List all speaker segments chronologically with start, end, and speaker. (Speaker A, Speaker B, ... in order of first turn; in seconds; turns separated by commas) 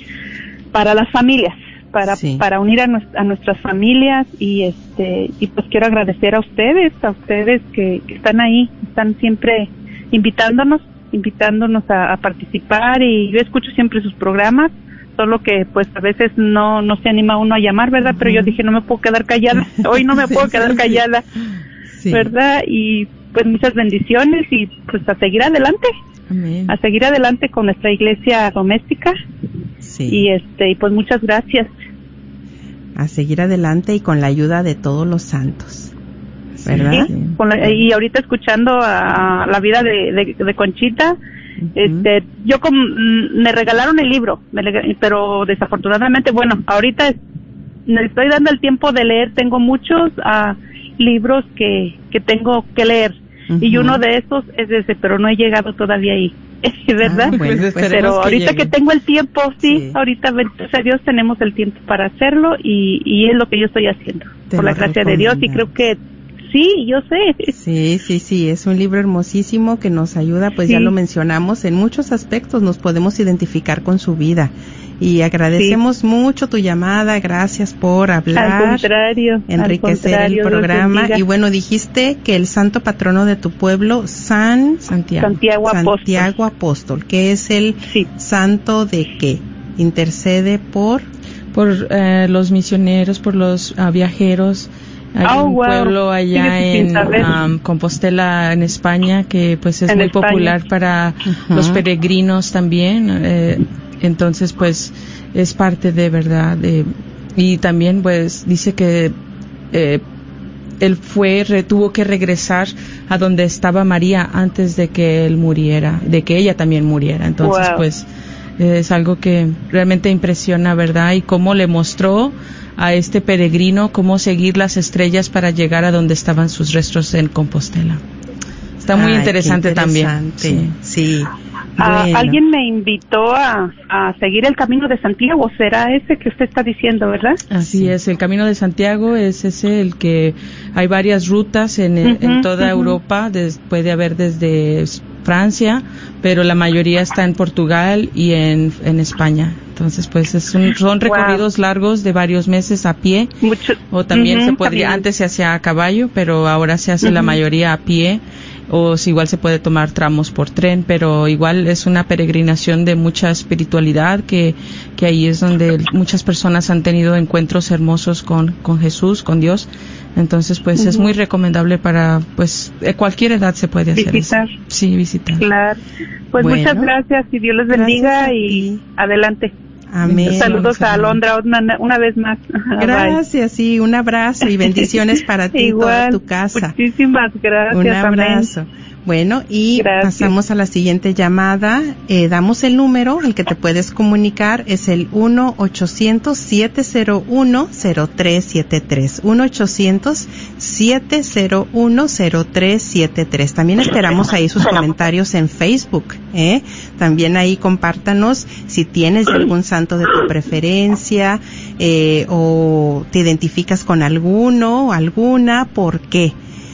Speaker A: 0.7-21.2, Speaker B: 2.1-2.4, Speaker B: 18.1-18.5, Speaker B: 19.8-21.0, Speaker B: 21.9-22.3, Speaker A: 22.1-25.9, Speaker C: 26.3-26.7, Speaker A: 26.7-29.2, Speaker B: 29.8-30.2, Speaker A: 30.1-31.7, Speaker B: 32.9-35.9, Speaker B: 36.6-37.8, Speaker C: 36.6-37.4, Speaker A: 36.9-41.2, Speaker B: 41.6-42.1, Speaker A: 41.8-47.2, Speaker A: 47.9-67.5, Speaker B: 53.5-54.0, Speaker B: 57.0-57.9, Speaker C: 57.3-58.7, Speaker B: 59.6-60.0, Speaker B: 64.5-65.7, Speaker B: 67.5-78.9, Speaker A: 70.7-70.9, Speaker A: 75.5-75.8, Speaker A: 78.3-81.2, Speaker B: 79.5-84.9, Speaker C: 84.9-85.3, Speaker A: 85.2-86.3, Speaker B: 85.6-91.1, Speaker C: 91.5-109.1, Speaker A: 95.2-97.3, Speaker A: 99.9-100.5, Speaker B: 101.2-101.8, Speaker C: 109.7-110.0, Speaker C: 110.8-118.0, Speaker A: 117.4-117.8, Speaker C: 118.6-128.0, Speaker B: 128.8-132.4, Speaker C: 128.8-130.7, Speaker A: 131.8-137.4, Speaker C: 137.5-153.3, Speaker B: 137.6-137.9, Speaker A: 142.0-142.9, Speaker A: 151.0-151.4, Speaker A: 153.4-155.0, Speaker C: 153.9-175.4, Speaker A: 157.0-157.4, Speaker A: 170.8-171.0, Speaker A: 173.9-174.5, Speaker A: 175.4-175.8, Speaker A: 176.3-179.5, Speaker B: 176.4-176.9, Speaker B: 177.7-178.8, Speaker B: 179.9-180.7, Speaker C: 180.0-181.2, Speaker A: 180.2-183.2, Speaker B: 182.8-186.7, Speaker A: 184.6-184.9, Speaker A: 185.5-188.5, Speaker B: 187.7-216.3, Speaker A: 189.7-190.3